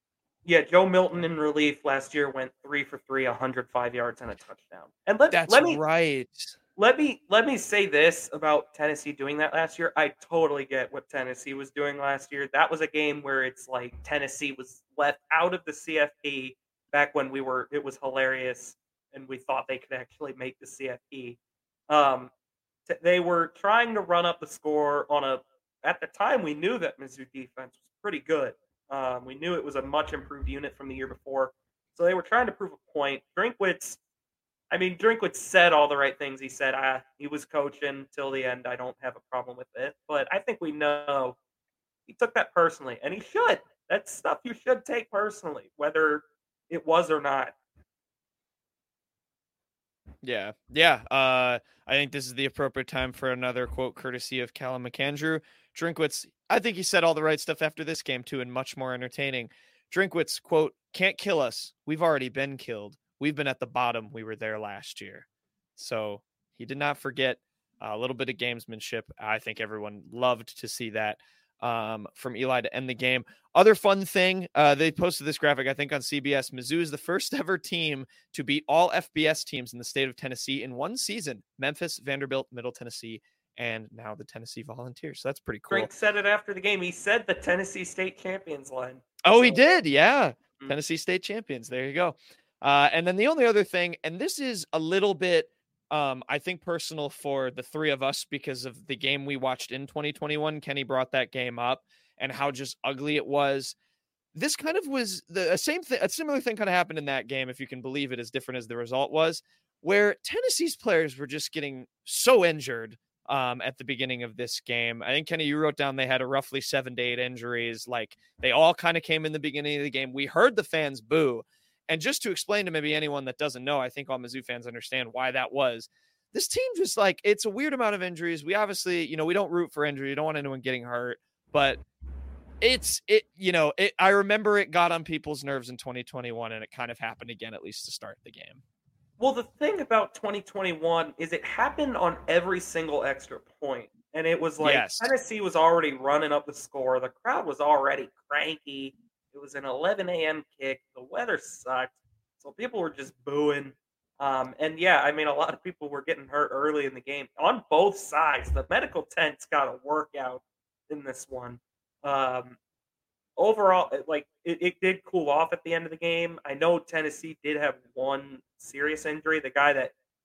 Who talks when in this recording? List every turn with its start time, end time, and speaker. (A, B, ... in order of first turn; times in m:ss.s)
0:00.4-0:05.8 A
0:05.3-0:06.6 B
0:06.8-0:21.4 A
0:21.9-0:22.3 A
0:22.9-0:34.0 A
0:34.7-0:41.4 A
0:42.1-0:47.5 A
0:50.2-1:05.3 B
1:05.8-1:25.9 B
1:25.7-1:29.6 A
1:29.2-1:43.8 B
1:44.4-2:11.8 B
2:12.6-2:18.6 B
2:19.2-2:42.6 A
2:24.6-2:25.1 B
2:43.4-2:49.9 A